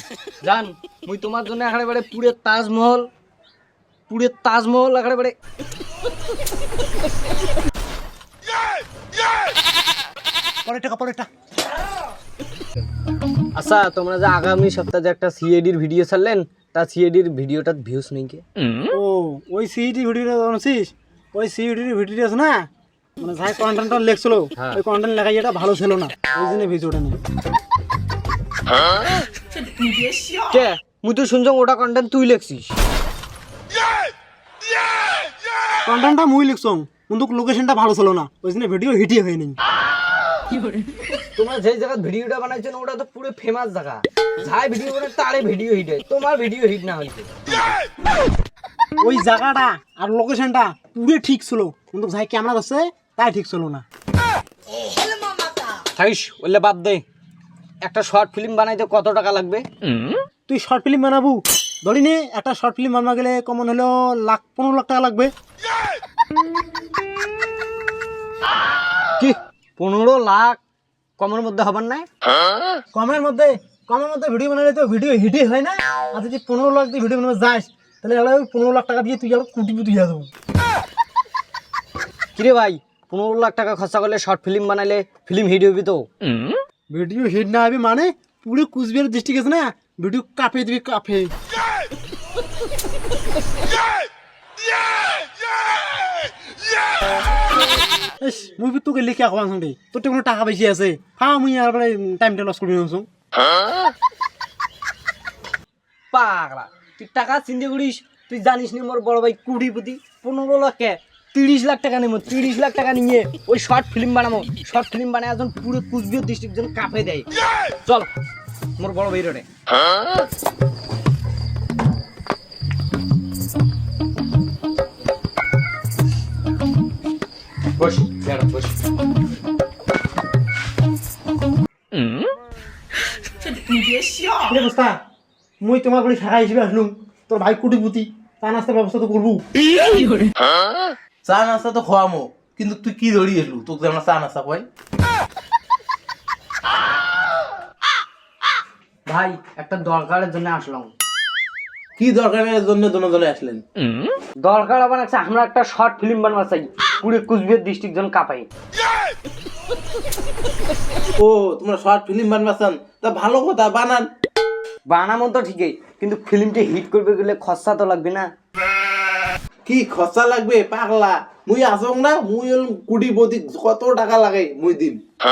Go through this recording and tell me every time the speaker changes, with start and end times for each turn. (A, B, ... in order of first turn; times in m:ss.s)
0:00.4-0:03.1 A
0:04.1-0:05.4 A
0:10.6-0:11.3 B
0:13.5-0:18.4 A
0:18.9-0:22.6 B
0:23.2-0:27.2 B
0:24.6-0:24.8 A
0:30.4-0:32.7 A
0:35.8-0:39.6 B
0:40.5-0:47.7 A
0:49.0-0:53.8 B
0:55.9-0:57.0 A
0:57.8-0:59.6 A
1:00.5-1:05.3 B
1:09.2-1:10.6 A
1:11.2-1:12.1 A
1:12.9-1:20.3 B
1:22.3-1:26.1 A
1:26.9-1:31.3 B
1:38.2-1:43.1 B
1:46.1-1:57.3 A
1:58.8-1:59.5 A
2:07.8-2:08.7 A
2:14.5-2:15.0 B
2:15.6-2:19.4 B
2:21.2-2:24.6 C
2:29.0-2:30.9 A
2:32.0-2:33.6 C
2:34.4-2:38.5 A
2:41.2-2:44.0 C
2:44.9-2:48.3 A
2:49.6-2:55.0 C